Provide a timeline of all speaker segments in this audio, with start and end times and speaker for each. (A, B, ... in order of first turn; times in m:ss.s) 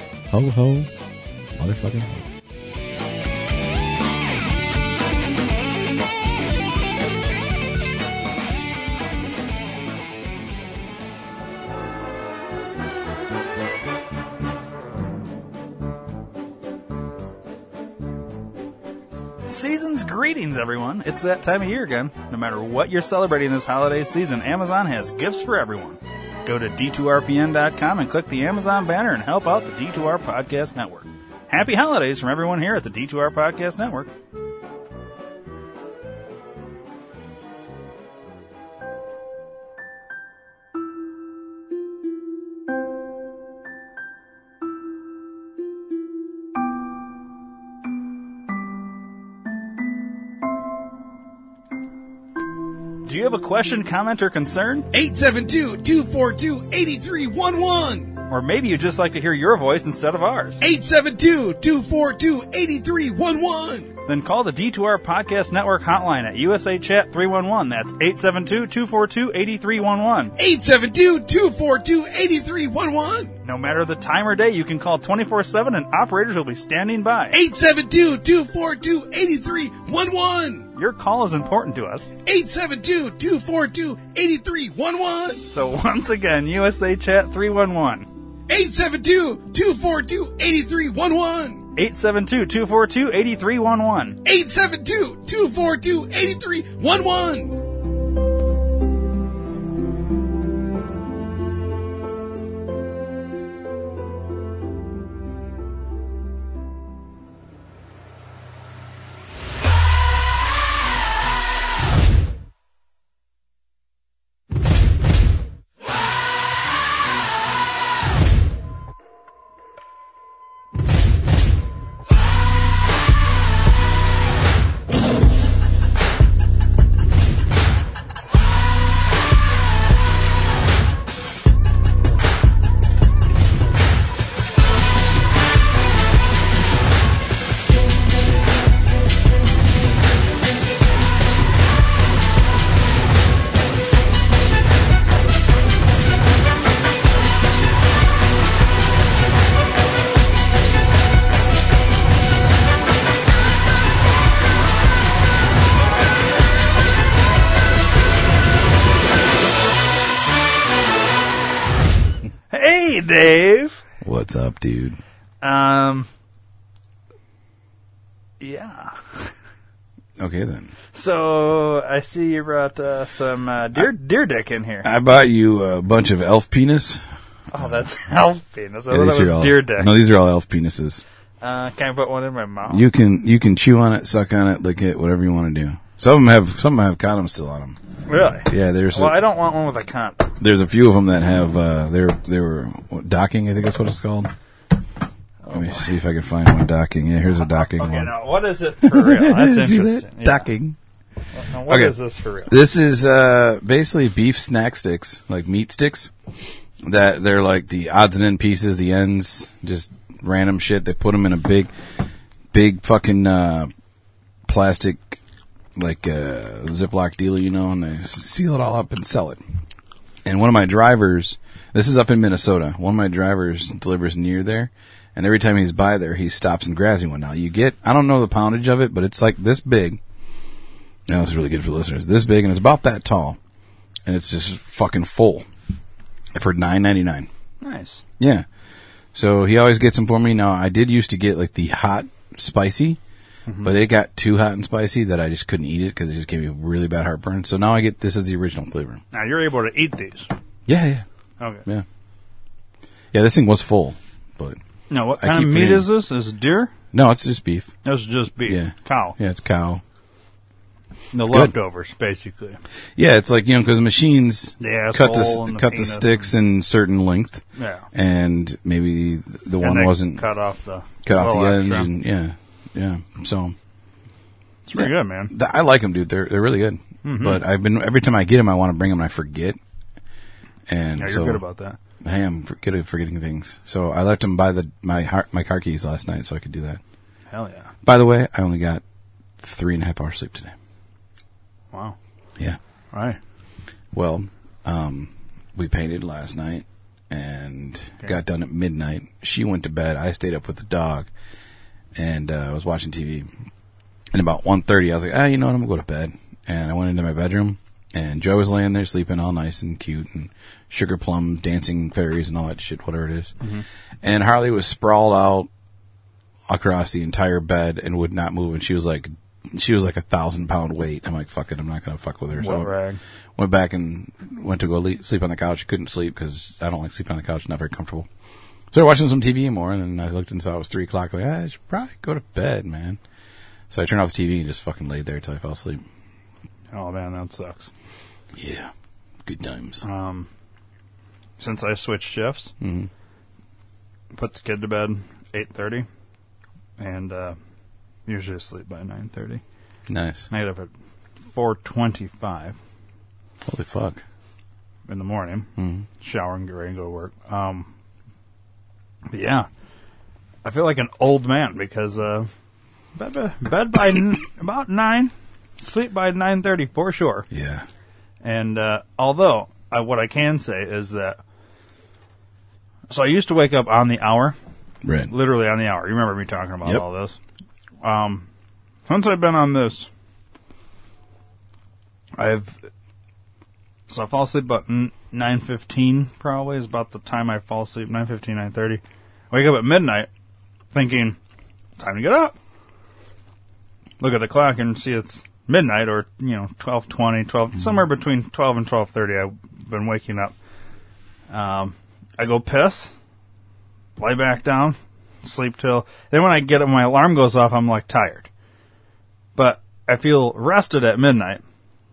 0:00.3-0:00.9 A
0:01.6-0:02.3 A
0:19.5-0:34.1 B
0:53.0-0:54.9 B
0:54.9-0:58.1 C
0:58.3-1:00.6 B
1:00.6-1:03.9 C
1:04.0-1:10.3 B
1:10.4-1:13.3 C
1:13.4-1:17.4 B
1:17.3-1:20.7 C
1:20.7-1:22.1 B
1:22.2-1:25.4 C
1:25.4-1:28.1 B
1:28.5-1:31.6 C
1:31.8-1:34.2 B
1:34.2-1:37.6 C
2:42.5-2:43.8 B
2:44.0-2:45.0 A
2:45.4-2:46.1 B
2:48.4-2:49.3 B
2:50.2-2:50.7 A
2:50.9-2:54.9 B
2:54.8-2:57.8 A
2:57.5-2:59.9 B
2:58.9-3:01.0 A
3:01.4-3:02.9 B
3:02.7-3:07.8 A
3:08.1-3:10.3 B
3:08.4-3:09.2 A
3:10.4-3:14.3 A
3:15.4-3:16.0 B
3:15.5-3:18.1 A
3:17.4-3:20.5 B
3:18.8-3:20.8 A
3:21.3-3:22.5 B
3:21.7-3:26.1 A
3:26.8-3:31.7 A
3:32.5-3:33.7 A
3:34.5-3:35.2 A
3:35.8-3:39.4 A
3:40.2-3:50.0 A
3:51.1-3:53.4 A
3:54.1-3:55.5 A
3:56.3-3:57.3 A
3:57.6-3:58.0 B
3:58.2-3:58.5 A
3:59.1-4:03.0 A
4:03.5-4:03.7 B
4:03.6-4:09.0 A
4:09.1-4:10.3 B
4:10.7-4:11.0 A
4:11.4-4:11.6 B
4:13.1-4:14.6 A
4:14.9-4:16.7 B
4:15.2-4:15.9 A
4:16.9-4:17.7 A
4:17.8-4:19.2 B
4:18.4-4:19.8 A
4:21.1-4:22.6 B
4:21.2-4:21.5 A
4:23.0-4:30.2 A
4:24.6-4:26.3 B
4:27.6-4:27.9 B
4:29.6-4:31.9 B
4:31.0-4:33.6 A
4:34.7-4:35.3 B
4:34.7-4:39.6 A
4:37.0-4:37.4 B
4:40.7-4:41.4 A
4:41.0-4:41.8 B
4:42.0-4:46.8 A
4:47.3-4:47.7 B
4:47.8-4:48.8 A
4:49.4-4:50.5 A
4:52.9-4:53.2 B
4:53.9-5:01.1 A
5:01.9-5:03.3 A
5:04.1-5:13.4 A
5:14.0-5:15.5 A
5:16.5-5:22.8 A
5:22.4-5:23.0 B
5:23.4-5:28.1 A
5:28.7-5:33.0 A
5:33.7-5:35.8 A
5:36.7-5:37.7 B
5:38.4-5:38.7 A
5:39.2-5:39.8 A
5:39.8-5:40.3 B
5:41.4-5:42.5 B
5:42.6-5:42.9 A
5:44.1-5:45.9 B
5:46.8-5:47.4 B
5:48.1-5:49.4 B
5:49.9-5:50.3 A
5:50.3-5:50.7 B
5:51.3-5:52.6 B
5:53.4-5:54.0 A
5:54.9-5:57.7 B
5:55.6-5:55.9 A
5:59.1-5:59.5 B
6:00.4-6:02.3 B
6:02.9-6:07.2 B
6:07.3-6:07.7 A
6:08.2-6:11.2 B
6:12.9-6:14.4 B
6:14.8-6:15.1 A
6:15.1-6:17.2 B
6:17.8-6:18.3 B
6:18.9-6:19.9 B
6:22.2-6:22.6 B
6:23.9-6:30.1 B
6:30.7-6:31.2 B
6:31.8-6:32.4 B
6:34.0-6:40.4 B
6:41.3-6:42.9 B
6:44.0-6:48.3 B
6:49.4-6:51.4 B